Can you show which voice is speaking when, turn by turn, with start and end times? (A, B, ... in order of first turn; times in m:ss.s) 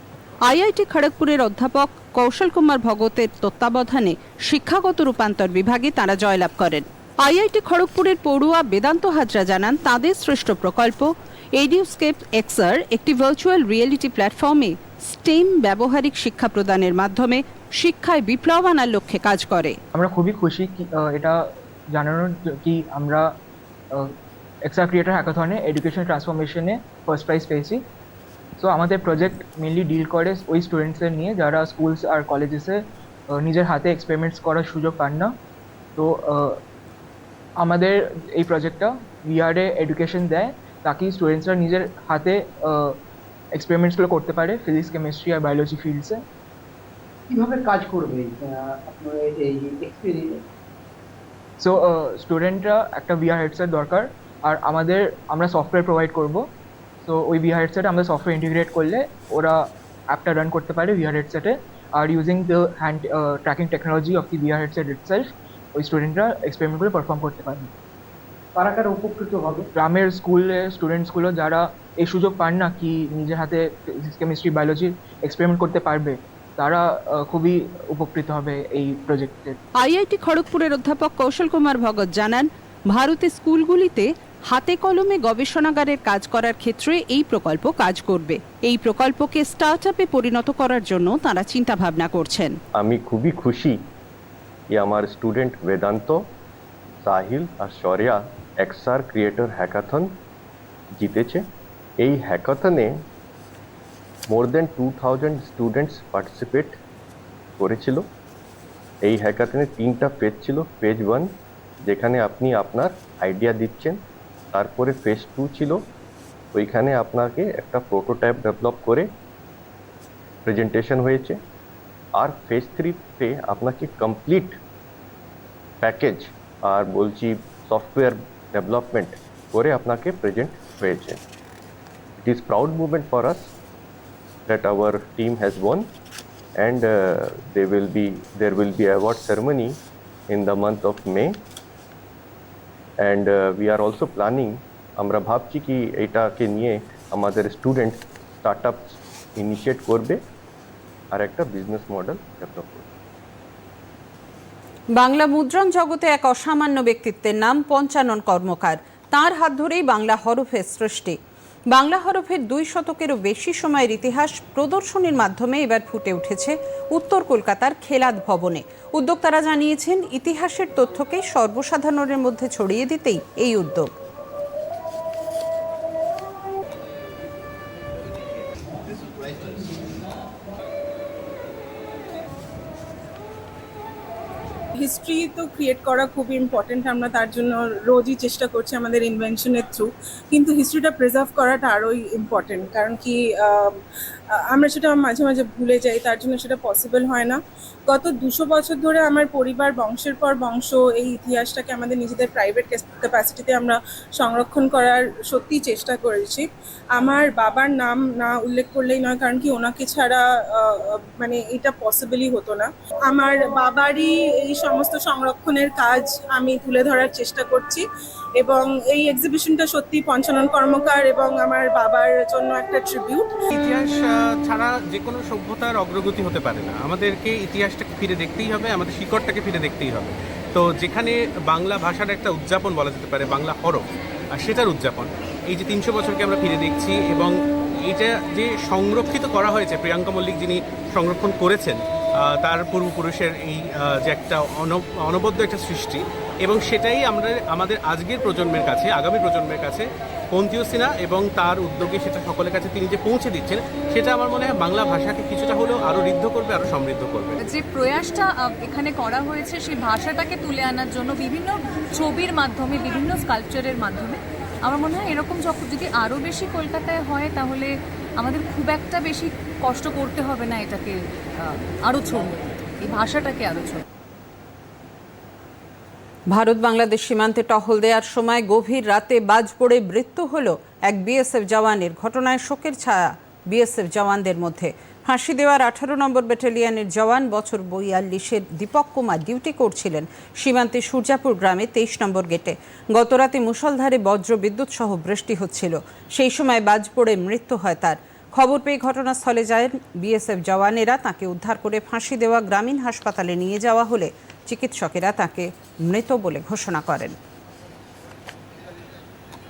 0:00.4-0:19.8 A
0:19.9-0:23.3 B
0:24.6-0:27.8 B
0:28.6-0:35.4 B
0:36.0-0:36.6 B
0:37.6-0:43.0 B
0:43.5-0:46.2 B
0:47.3-0:50.4 C
0:51.6-0:56.5 B
0:57.0-1:07.7 B
1:08.6-1:09.7 C
1:09.7-1:19.6 B
1:19.8-1:32.6 A
1:32.7-1:33.8 D
1:34.7-1:36.2 D
1:37.0-1:40.1 D
1:41.0-1:41.4 D
1:42.0-1:43.0 D
1:44.3-1:46.8 D
1:47.6-1:48.1 D
1:49.0-1:51.3 D
1:51.8-1:54.0 D
1:54.5-1:55.8 D
1:56.5-1:59.1 D
2:00.4-2:01.4 D
2:02.2-2:04.6 D
2:05.8-2:11.2 D
2:12.2-2:13.5 D
2:14.5-2:15.9 D
2:16.6-2:19.8 D
2:20.3-2:21.4 D
2:23.0-2:30.2 D
2:31.1-2:32.9 D
2:35.0-2:41.2 A
2:41.7-2:53.9 A
3:04.8-3:13.8 E
3:14.5-3:37.8 E
3:38.4-3:43.4 E
3:43.5-3:57.3 F
3:57.8-4:01.8 F
4:02.3-4:17.4 F
4:17.4-4:33.8 G
4:36.3-5:07.2 A